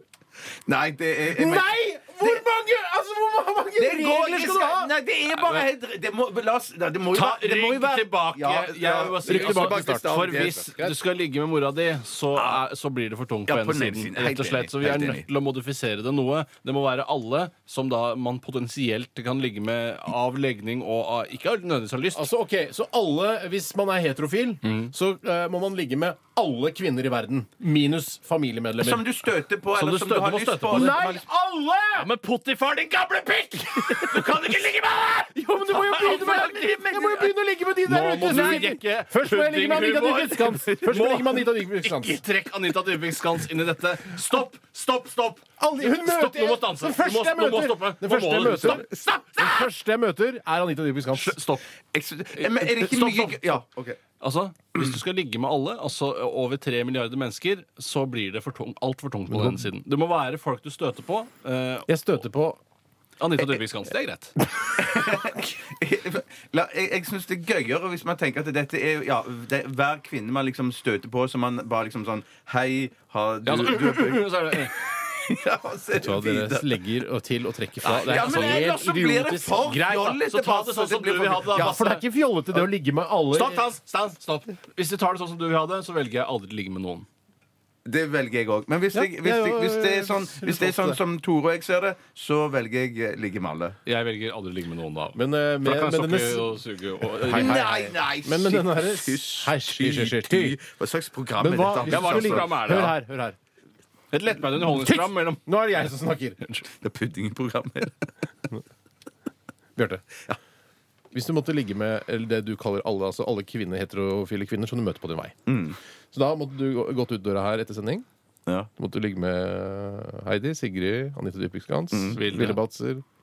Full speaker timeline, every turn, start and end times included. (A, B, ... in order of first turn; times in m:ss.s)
0:00.7-0:02.4 A
0:01.3-0:04.9 B
0:03.8-0:11.0 A
0:05.4-0:05.6 C
0:07.1-0:22.3 C
0:09.2-0:10.5 B
0:12.4-0:12.6 A
0:13.5-0:15.2 A
0:22.1-0:29.1 B
0:24.6-0:24.9 C
0:28.8-0:31.2 A
0:29.8-0:31.0 C
0:30.7-0:32.1 B
0:32.0-0:37.0 C
0:33.8-0:34.4 B
0:35.3-0:42.2 B
0:36.1-0:37.3 A
0:37.8-0:49.2 C
0:38.3-0:38.7 A
0:45.6-0:51.4 B
0:48.4-0:49.1 A
0:51.1-0:51.6 C
0:51.9-0:54.0 A
0:52.4-0:53.6 C
0:54.2-1:02.2 C
0:59.3-0:59.6 B
1:01.9-1:02.6 B
1:03.2-1:04.4 C
1:04.8-1:16.8 A
1:13.5-1:14.7 C
1:15.9-1:20.1 B
1:17.8-1:18.7 C
1:18.0-1:21.8 A
1:19.7-1:22.0 C
1:21.5-1:23.7 B
1:23.3-1:27.1 C
1:27.9-1:33.8 A
1:28.9-1:31.0 B
1:33.9-1:37.9 C
1:35.2-1:36.5 B
1:37.2-1:40.6 B
1:37.3-1:42.5 A
1:41.4-1:43.4 B
1:41.9-1:43.0 C
1:44.1-1:45.5 C
1:44.6-1:46.4 B
1:46.7-1:48.1 A
1:49.8-1:50.2 B
1:51.1-1:55.4 B
1:55.5-1:55.8 A
1:56.1-1:58.0 B
1:58.8-2:03.0 B
2:01.9-2:02.2 A
2:02.1-2:02.6 C